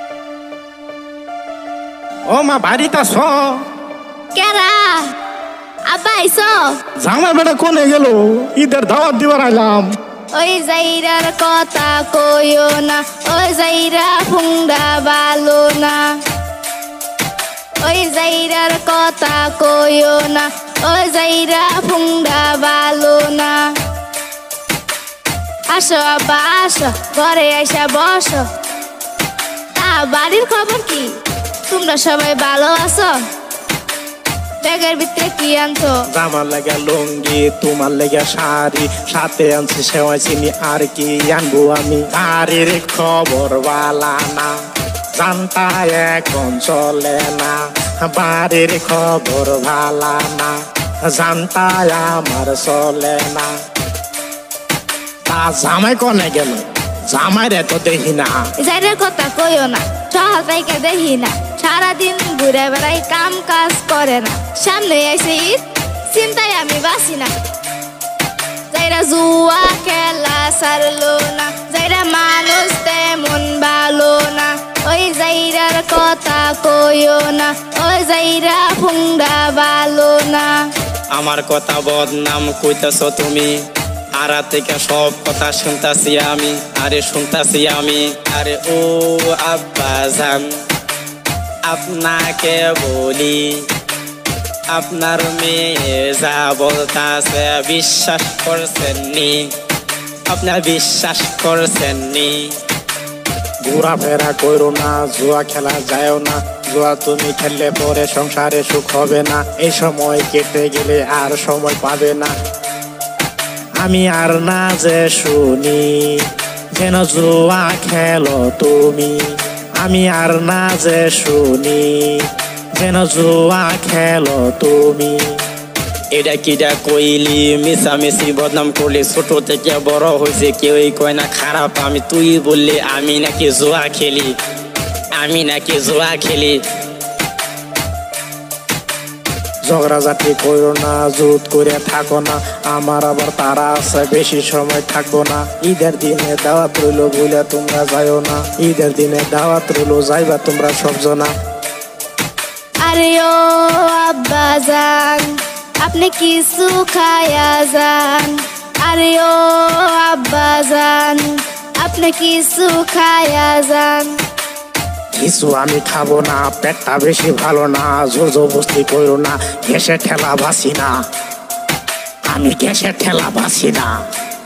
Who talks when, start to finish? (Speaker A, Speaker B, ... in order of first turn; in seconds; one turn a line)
Speaker A: 2.3-3.6
Speaker B: 4.3-5.0
Speaker B: 5.9-6.7
Speaker A: 7.0-9.9
Speaker B: 10.3-16.1
Speaker B: 17.8-23.7
Speaker B: 25.7-28.4
Speaker B: 29.7-31.1
Speaker B: 31.7-33.1
Speaker B: 34.6-36.0
Speaker A: 36.1-44.6
Speaker A: 45.1-53.5
Speaker A: 55.3-58.5
Speaker B: 58.6-67.3
Speaker B: 68.7-80.6
Speaker C: 81.1-83.6
Speaker C: 84.2-90.5
Speaker C: 91.6-93.7
Speaker C: 94.7-99.5
Speaker C: 100.3-102.5
Speaker A: 103.6-112.3
Speaker A: 113.8-125.4
Speaker C: 126.1-134.3
Speaker C: 135.2-136.6
Speaker A: 139.7-151.3
Speaker B: 152.8-155.3
Speaker B: 155.8-164.1
Speaker A: 165.1-170.9
Speaker A: 172.3-173.9